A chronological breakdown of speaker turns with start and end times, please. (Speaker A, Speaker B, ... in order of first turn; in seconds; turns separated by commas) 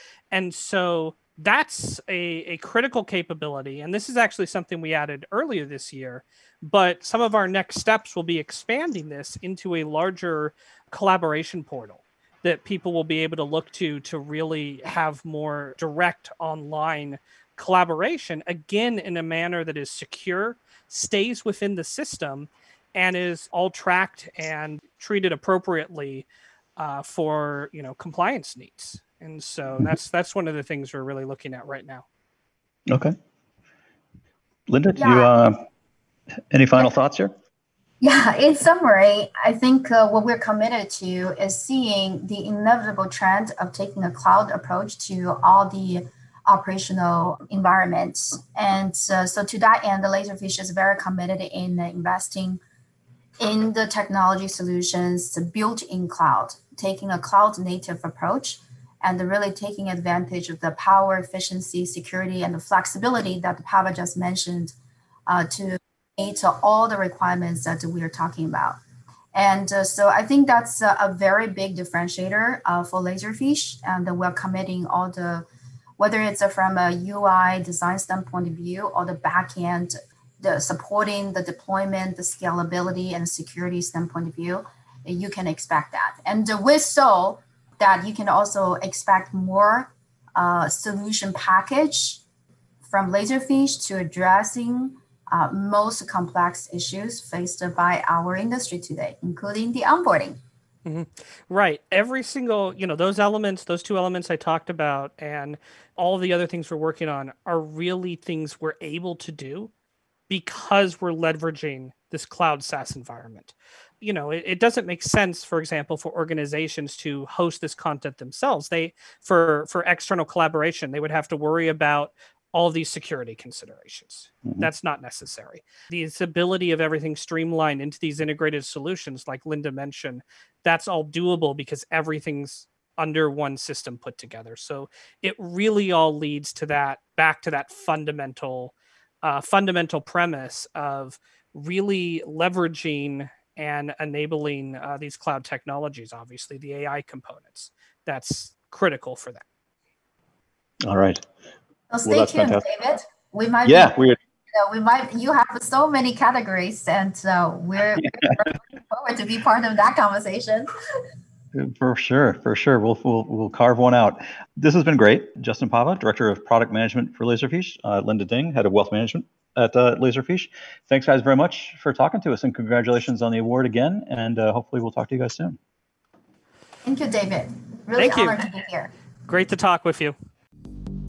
Speaker A: 0.3-32.0, Speaker B: 32.9-33.2, Speaker B: 34.7-35.6, Speaker C: 35.0-35.3, Speaker B: 36.5-37.3, Speaker C: 38.0-52.6, Speaker C: 53.4-64.8, Speaker C: 65.3-68.8, Speaker C: 69.3-75.5, Speaker C: 76.0-92.2, Speaker C: 92.8-100.4, Speaker A: 100.9-109.7, Speaker A: 110.3-149.4, Speaker B: 150.8-151.2, Speaker C: 151.9-154.0, Speaker B: 152.1-152.6, Speaker B: 153.7-154.2, Speaker C: 154.5-160.7, Speaker B: 161.5-175.6, Speaker C: 176.8-178.9, Speaker A: 178.0-178.4, Speaker A: 179.3-180.2